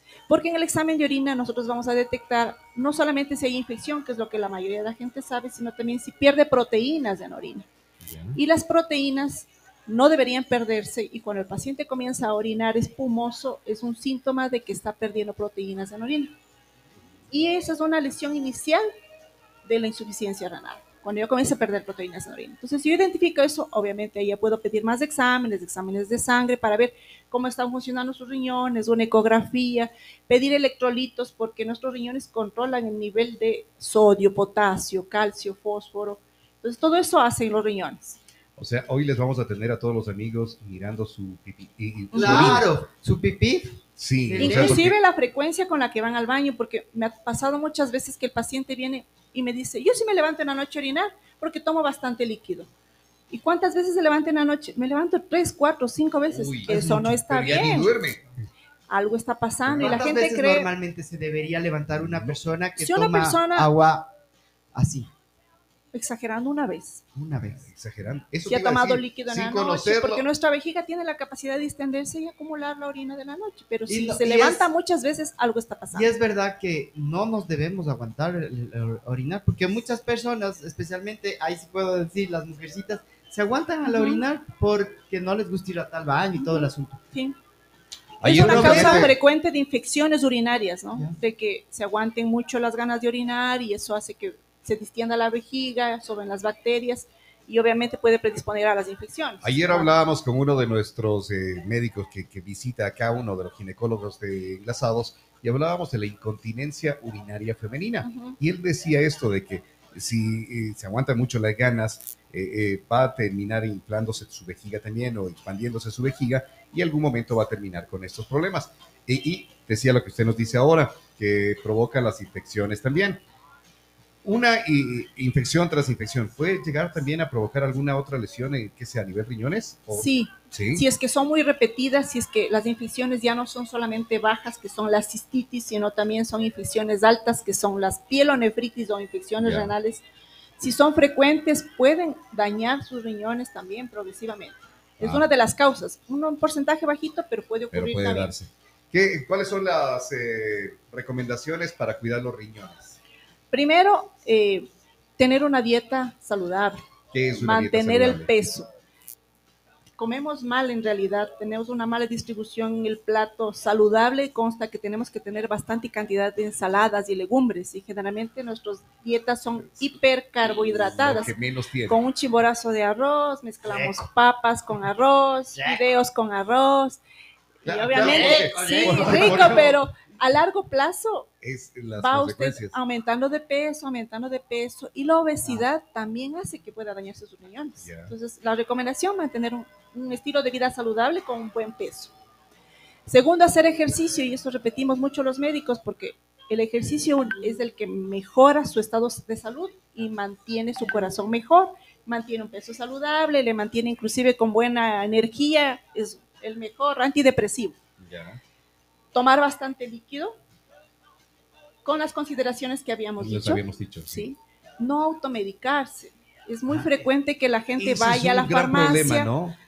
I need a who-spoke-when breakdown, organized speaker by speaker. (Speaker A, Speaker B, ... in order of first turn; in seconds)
Speaker A: 0.3-7.7, 8.3-16.3, 17.3-18.8, 19.6-38.2, 42.1-42.6, 44.4-52.7, 53.3-57.9, 58.9-60.7, 62.8-63.7, 65.9-67.0, 68.5-76.1, 83.9-84.2, 86.4-87.4, 88.2-99.9, 108.0-108.4, 129.9-140.0, 140.6-148.3, 153.5-156.8, 157.3-158.7, 160.0-171.3, 171.9-177.0, 177.6-181.3, 182.0-192.1, 193.1-207.8, 209.1-210.4, 211.8-219.3
Speaker B: 8.1-8.4, 38.6-42.7, 44.0-45.0, 56.3-56.7, 57.2-58.2, 62.0-62.4, 67.5-70.2, 88.2-89.2, 99.4-123.2, 124.2-130.8, 139.4-139.7, 145.0-145.3, 147.7-153.0, 157.1-158.3, 170.7-172.0, 177.7-179.8, 181.4-182.8, 187.8-188.1, 208.0-208.4, 213.2-214.3, 217.8-219.6
Speaker C: 42.1-44.8, 56.7-57.3, 59.8-64.1, 64.7-65.1, 67.2-67.7, 73.9-74.7, 75.9-87.0, 88.3-89.2, 173.7-174.0, 175.6-175.8, 177.9-179.8, 216.7-217.1